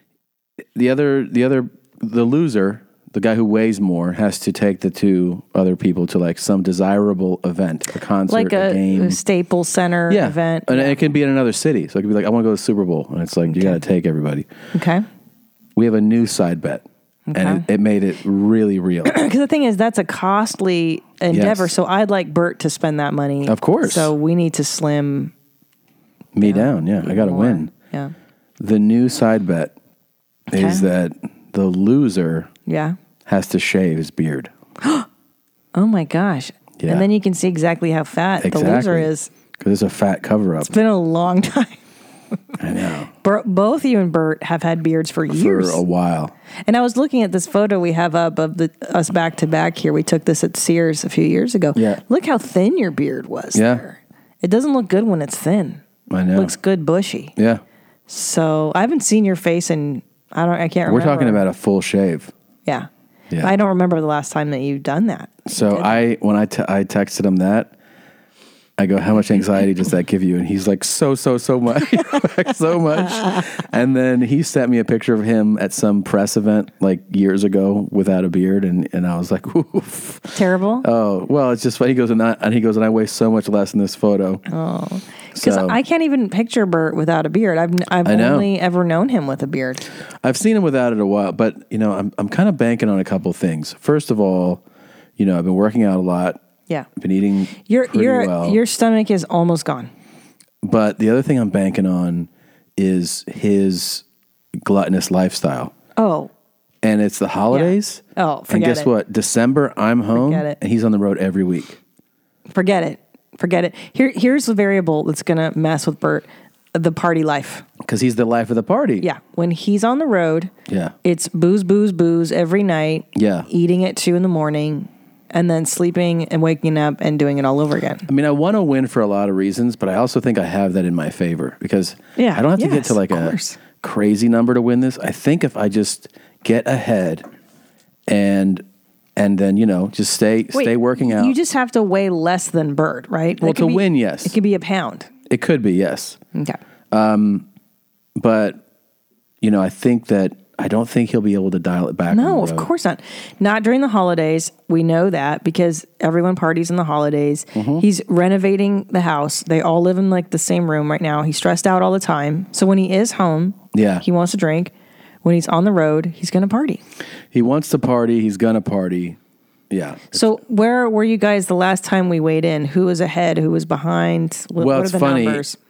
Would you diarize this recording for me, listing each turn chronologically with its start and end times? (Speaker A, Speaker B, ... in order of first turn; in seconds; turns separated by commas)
Speaker A: 0.8-9.2, Speaker B: 8.3-11.0, Speaker A: 10.1-14.5, Speaker B: 13.5-13.8, Speaker B: 14.7-15.1, Speaker A: 15.8-19.1, Speaker B: 17.3-17.6, Speaker B: 19.0-25.3, Speaker A: 21.3-21.7, Speaker A: 23.4-24.1, Speaker A: 26.3-27.7, Speaker B: 26.4-28.1, Speaker A: 28.6-29.7, Speaker A: 30.5-32.5, Speaker B: 30.5-30.8, Speaker B: 32.7-33.0, Speaker A: 33.2-34.5, Speaker B: 34.8-35.1, Speaker B: 35.7-39.3, Speaker A: 36.8-37.1, Speaker A: 38.4-40.7, Speaker B: 40.6-41.8, Speaker A: 42.6-43.1, Speaker B: 43.2-45.8, Speaker A: 45.3-46.3, Speaker B: 46.6-55.8, Speaker A: 51.7-52.0, Speaker A: 53.5-53.8, Speaker A: 56.1-56.5, Speaker B: 56.3-57.3, Speaker A: 57.4-57.6, Speaker B: 58.1-61.4, Speaker A: 60.9-62.3, Speaker B: 63.4-66.0, Speaker A: 65.5-67.7, Speaker A: 68.8-84.4, Speaker B: 80.3-80.8, Speaker B: 84.5-89.8, Speaker A: 85.3-85.8, Speaker A: 88.0-88.5, Speaker A: 90.2-94.6, Speaker A: 95.2-96.4, Speaker A: 97.0-98.6, Speaker B: 97.7-99.9, Speaker A: 100.6-104.0, Speaker A: 104.6-105.7, Speaker B: 106.0-106.3, Speaker A: 106.8-111.8, Speaker B: 107.5-108.9, Speaker B: 110.1-110.6, Speaker B: 112.5-117.6, Speaker A: 117.8-119.0, Speaker B: 119.0-120.5, Speaker A: 120.7-120.9, Speaker B: 121.0-128.1, Speaker A: 123.1-123.5, Speaker A: 128.1-137.2, Speaker B: 132.2-133.6, Speaker A: 138.1-138.6, Speaker A: 139.2-141.3, Speaker B: 140.5-145.1, Speaker A: 143.4-144.3, Speaker A: 145.3-146.2, Speaker A: 146.9-147.4, Speaker A: 148.2-148.6, Speaker A: 149.4-152.7, Speaker B: 152.1-166.8, Speaker A: 157.5-157.8, Speaker A: 163.7-164.0, Speaker A: 167.3-169.2, Speaker A: 169.7-170.3, Speaker B: 170.1-175.6, Speaker A: 174.6-175.4